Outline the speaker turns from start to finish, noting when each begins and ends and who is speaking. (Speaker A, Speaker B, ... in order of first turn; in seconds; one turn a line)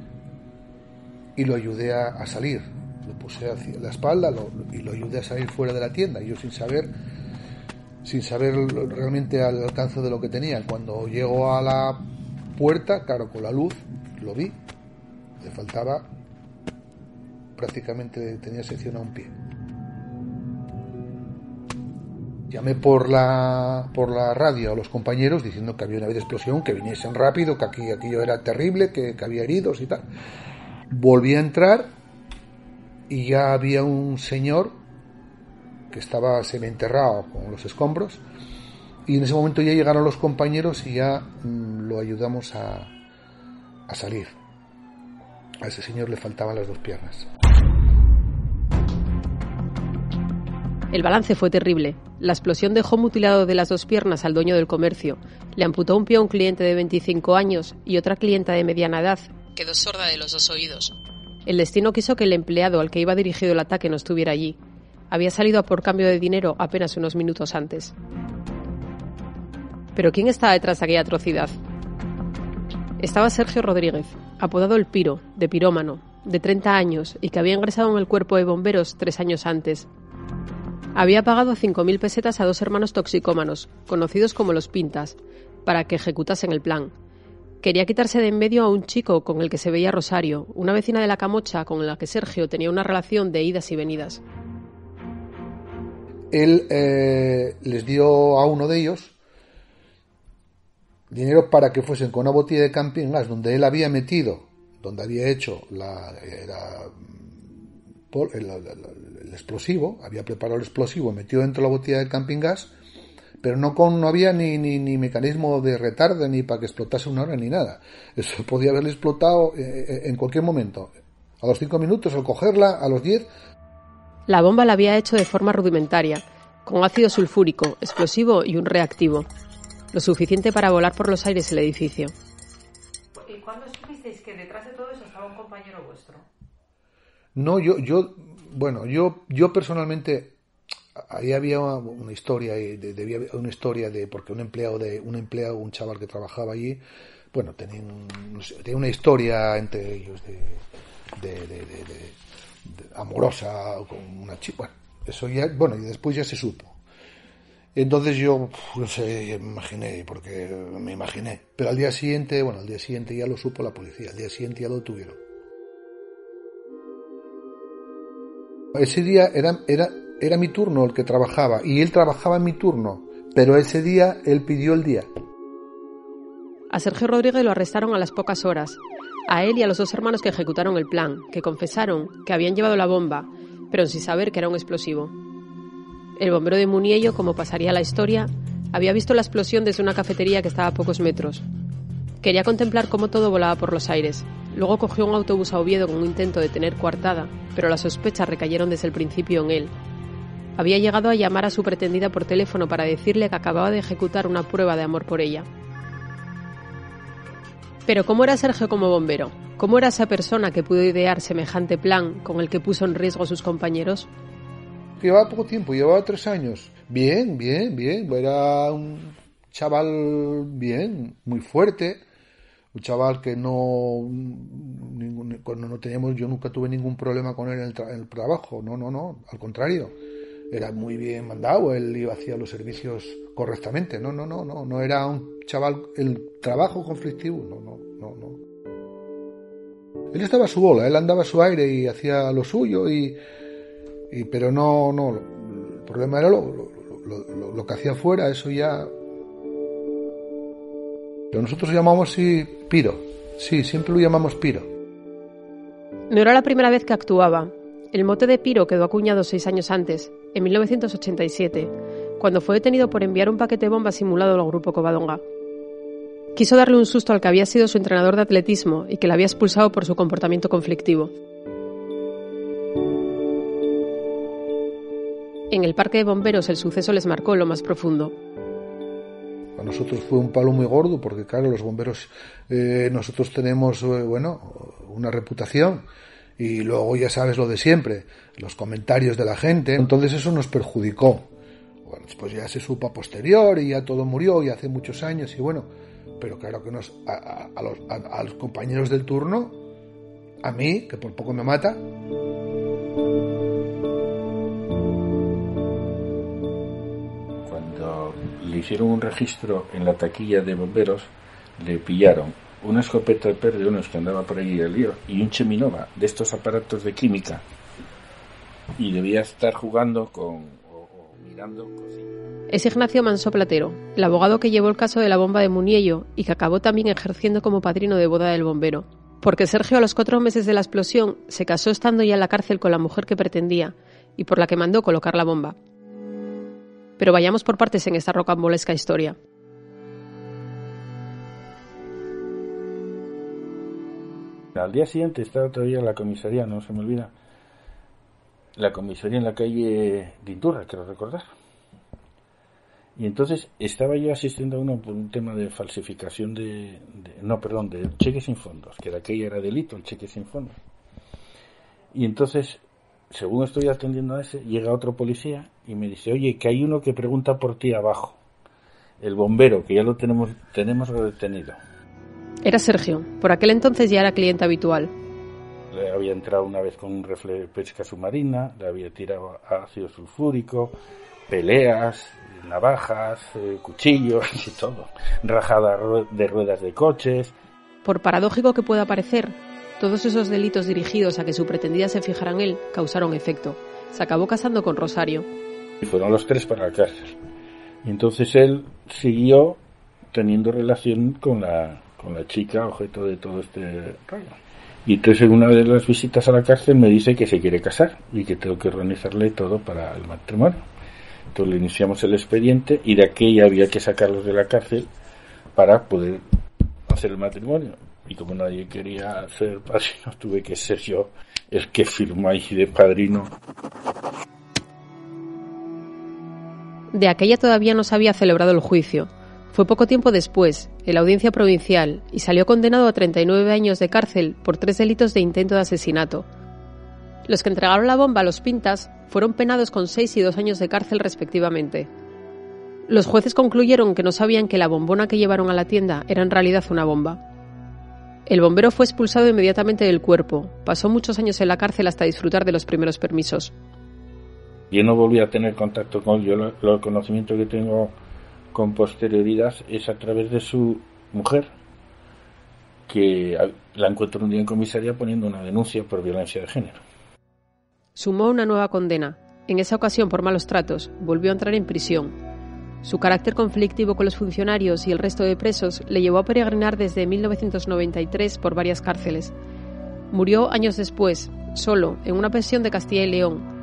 Speaker A: 1.4-6.9
Speaker A: 8.0-14.6
Speaker A: 15.4-16.1
Speaker A: 17.6-19.3
Speaker A: 22.5-30.1
Speaker A: 30.9-31.9
Speaker A: 33.1-34.8
Speaker A: 35.9-38.2
Speaker A: 39.0-42.9
Speaker A: 43.9-44.4
Speaker A: 45.6-47.3
Speaker B: 50.9-64.6
Speaker B: 65.1-67.9
Speaker B: 69.9-71.5
Speaker B: 73.0-79.9
Speaker B: 80.9-86.9
Speaker B: 87.6-94.2
Speaker A: 96.3-99.2
Speaker A: 101.1-107.4
Speaker A: 108.1-112.7
Speaker A: 113.4-123.3
Speaker B: 124.3-129.3
Speaker B: 129.9-132.1
Speaker C: 133.2-136.2
Speaker B: 133.7-136.1
Speaker A: 137.3-140.4
Speaker A: 140.9-146.8
Speaker A: 147.3-150.6
Speaker A: 151.2-152.2
Speaker A: 152.7-156.8
Speaker A: 157.8-165.2
Speaker A: 168.7-175.1
Speaker B: 176.7-185.1
Speaker B: 186.2-191.4
Speaker B: 192.2-199.7
Speaker B: 200.6-205.4
Speaker B: 207.9-214.1
Speaker A: 215.0-222.0
Speaker A: 222.7-229.9
Speaker A: 230.5-238.4
Speaker A: 240.1-243.2
Speaker A: 244.1-248.9
Speaker A: 251.3-254.7
Speaker B: 256.1-265.2
Speaker B: 266.3-271.1
Speaker B: 275.5-278.1
Speaker A: 279.6-285.9
Speaker A: 286.4-291.3
Speaker A: 291.8-295.7
Speaker A: 296.2-299.6
Speaker A: 300.4-301.8
Speaker D: 307.4-317.4
Speaker D: 318.8-322.1
Speaker B: 322.5-335.6
Speaker B: 337.0-339.2
Speaker D: 344.6-347.1
Speaker D: 348.6-351.2
Speaker D: 352.9-360.6
Speaker D: 361.9-368.2
Speaker D: 369.0-371.6
Speaker B: 372.4-374.9
Speaker D: 375.7-380.8
Speaker D: 381.3-387.3
Speaker B: 387.8-395.3
Speaker D: 395.8-397.2
Speaker D: 397.8-399.6
Speaker D: 400.1-410.6
Speaker D: 411.3-414.9
Speaker D: 415.6-416.2
Speaker D: 416.9-423.3
Speaker B: 426.9-436.2
Speaker B: 437.3-441.9
Speaker B: 442.9-447.2
Speaker B: 448.3-453.5
Speaker D: 454.7-457.9
Speaker D: 458.5-461.5
Speaker D: 462.9-466.8
Speaker B: 467.9-472.1
Speaker B: 472.8-479.3
Speaker B: 480.1-483.4